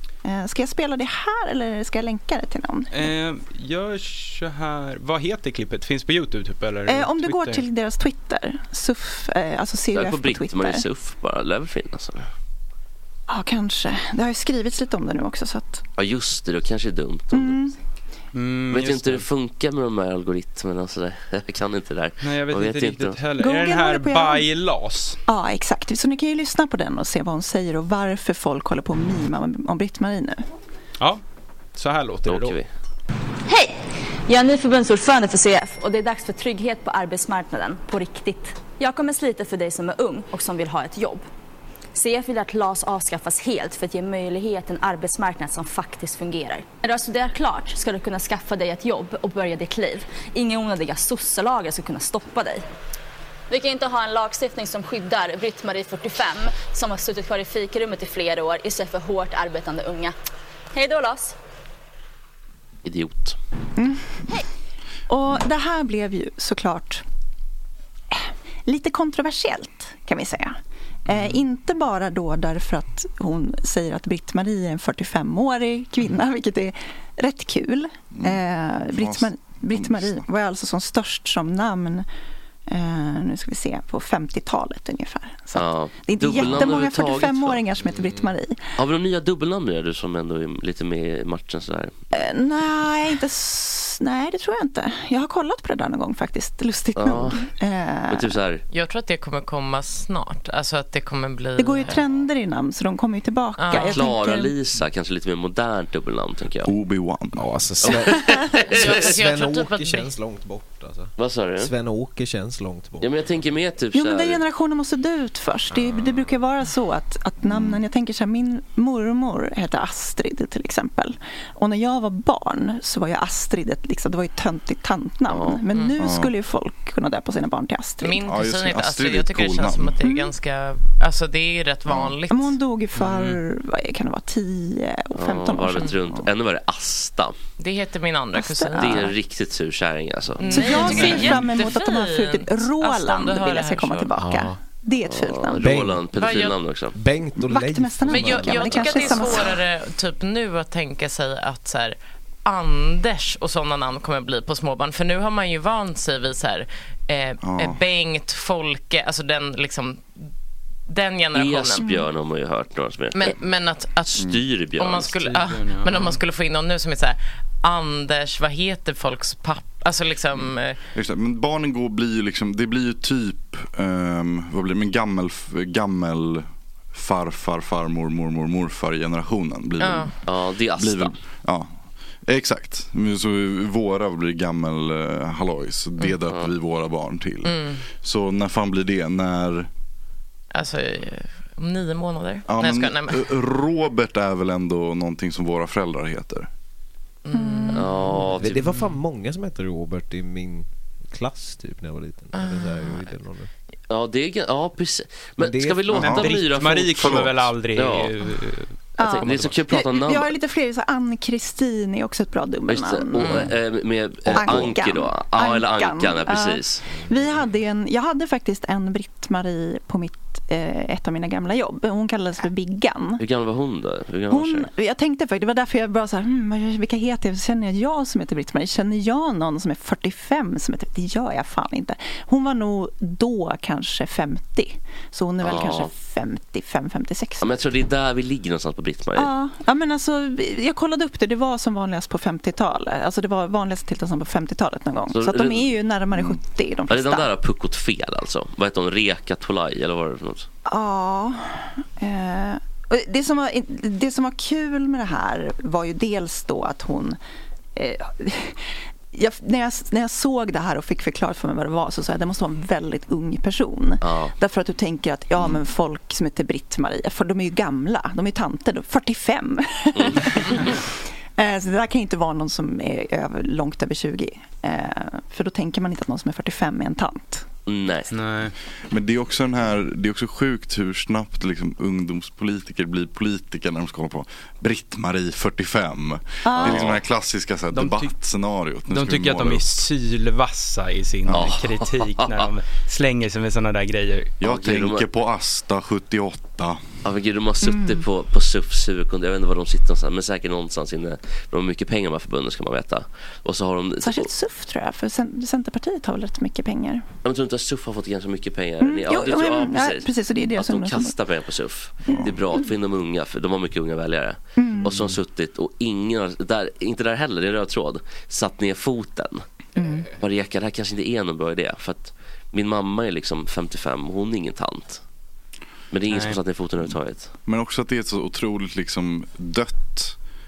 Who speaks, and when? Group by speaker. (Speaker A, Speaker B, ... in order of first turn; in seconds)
Speaker A: 0.2-3.1, 6.9-10.8, 13.3-15.8, 17.3-17.8, 23.4-24.5, 25.3-30.4, 63.8-64.1, 65.1-67.0, 68.1-82.0, 82.7-88.6, 92.1-98.3, 101.6-104.5, 113.9-128.2, 130.0-130.3, 132.3-135.9, 138.3-139.1, 140.5-145.7, 147.4-149.6, 197.3-198.0, 209.0-213.5, 214.3-223.2, 224.3-237.5, 239.2-247.3, 250.7-257.2, 257.8-277.4, 286.4-286.9, 297.6-298.0, 304.0-307.0, 308.8-311.1, 312.1-312.7, 314.6-315.1, 319.8-320.1
Speaker B: 2.9-7.6, 18.3-19.2, 22.2-25.2, 31.7-32.6, 132.9-133.4, 165.0-166.2, 206.0-209.6, 278.1-278.5, 287.7-288.1, 288.9-294.4, 326.1-326.4
Speaker C: 9.9-12.3, 16.0-17.6, 18.7-23.2, 32.3-32.7, 62.8-63.4, 85.5-87.6, 88.8-91.9, 97.0-97.4, 98.1-98.6, 103.7-106.7, 107.8-109.1, 111.2-111.7, 113.0-114.4, 125.3-125.6, 135.1-137.3, 138.8-141.4, 145.1-146.9, 161.3-163.3, 164.1-165.1, 180.2-181.2, 197.7-198.7, 203.9-208.1, 209.0-210.3, 212.7-216.8, 223.2-224.7, 235.4-235.9, 237.4-239.3, 245.1-245.7, 246.9-250.5, 264.0-264.3, 269.9-270.8, 277.6-278.1, 286.6-287.0, 291.3-292.5, 294.4-295.1, 297.0-304.3, 307.2-319.4, 320.2-325.0, 325.9-327.3
Speaker D: 33.5-41.2, 41.9-52.6, 53.5-60.1, 60.7-61.3
Speaker E: 78.1-80.2, 106.6-107.5, 117.5-117.8, 126.0-126.3, 128.2-130.0, 131.9-132.2, 157.4-157.8, 170.9-180.1, 180.7-181.7, 182.3-189.7, 192.4-196.5, 205.9-206.2, 206.9-207.5, 278.9-289.7, 291.3-291.5, 294.4-296.8, 327.4-330.1
Speaker F: 87.9-88.3, 107.3-113.2, 144.2-144.5, 145.6-146.0, 146.9-149.5, 198.4-203.5, 205.4-206.2
Speaker G: 98.7-102.0, 103.6-104.0, 108.7-110.1, 125.7-126.0, 128.0-132.6, 137.6-139.1, 140.4-144.1, 146.1-146.6, 148.1-160.1, 160.9-161.9, 163.1-170.8, 179.8-180.1, 187.4-187.8, 190.5-193.3, 197.2-198.0, 202.3-203.1, 213.2-213.5